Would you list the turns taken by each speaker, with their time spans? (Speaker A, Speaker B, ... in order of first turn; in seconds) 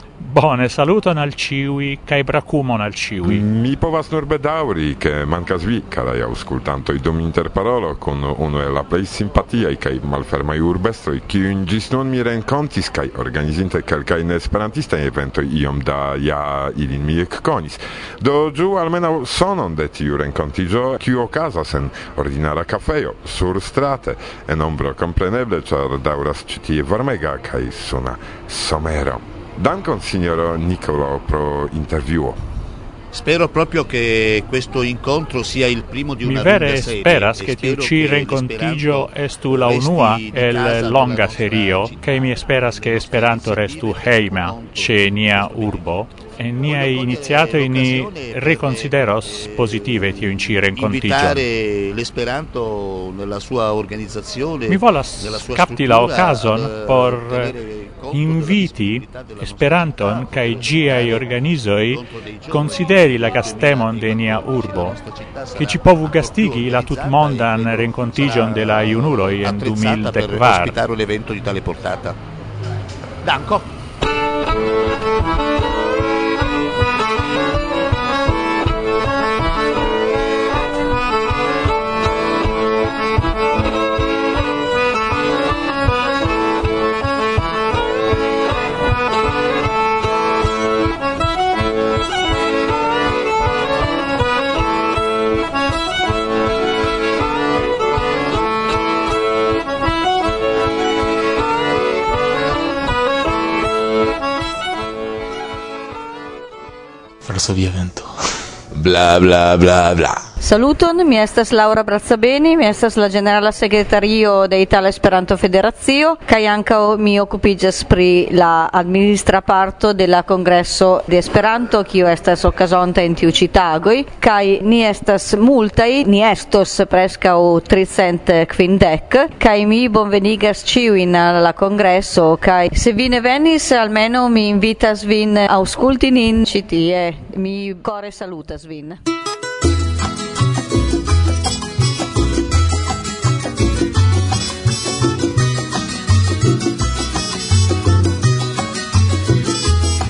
Speaker A: 0.2-3.4, 36.2-51.4, 54.7-57.5, 58.1-65.0, 65.5-70.7
Speaker B: 3.2-32.4
Speaker C: 33.1-72.2, 73.2-73.7
Speaker D: 107.2-108.2, 108.7-110.2
Speaker E: 110.4-139.0